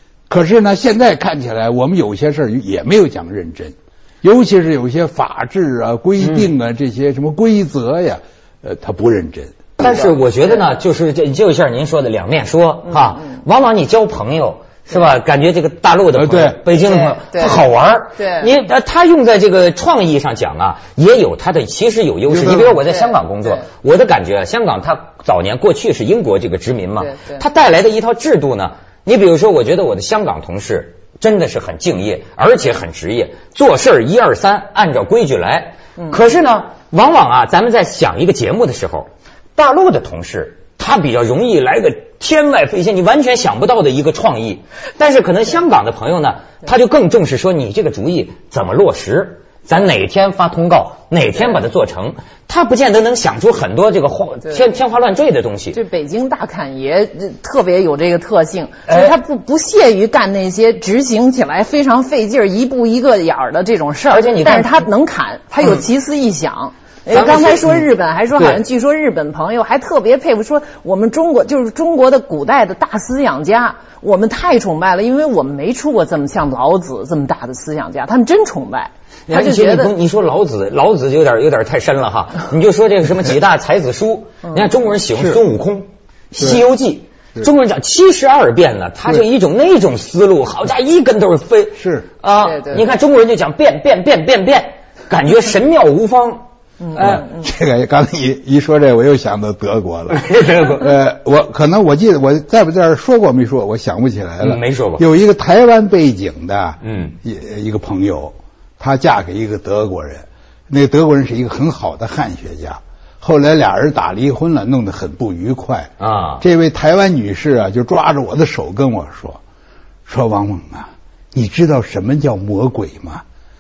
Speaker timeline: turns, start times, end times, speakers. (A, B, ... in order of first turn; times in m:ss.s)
0:00.3-0:10.1 A
0:06.2-0:06.5 B
0:09.8-0:55.8 B
0:16.2-0:16.6 A
0:16.8-0:17.6 C
0:18.2-0:18.5 C
0:22.3-0:22.8 A
0:23.0-0:23.6 C
0:27.0-0:27.4 C
0:55.7-1:19.9 C
0:58.9-0:59.2 B
1:04.1-1:04.9 B
1:07.1-1:08.6 B
1:19.3-1:37.3 B
1:26.4-1:26.6 A
1:31.8-1:32.1 A
1:32.4-1:32.9 C
1:36.8-1:37.2 C
1:37.0-1:59.4 A
1:40.1-1:40.9 B
1:44.4-1:45.0 B
1:46.8-1:47.2 B
1:56.0-1:56.4 B
2:00.1-2:03.2 A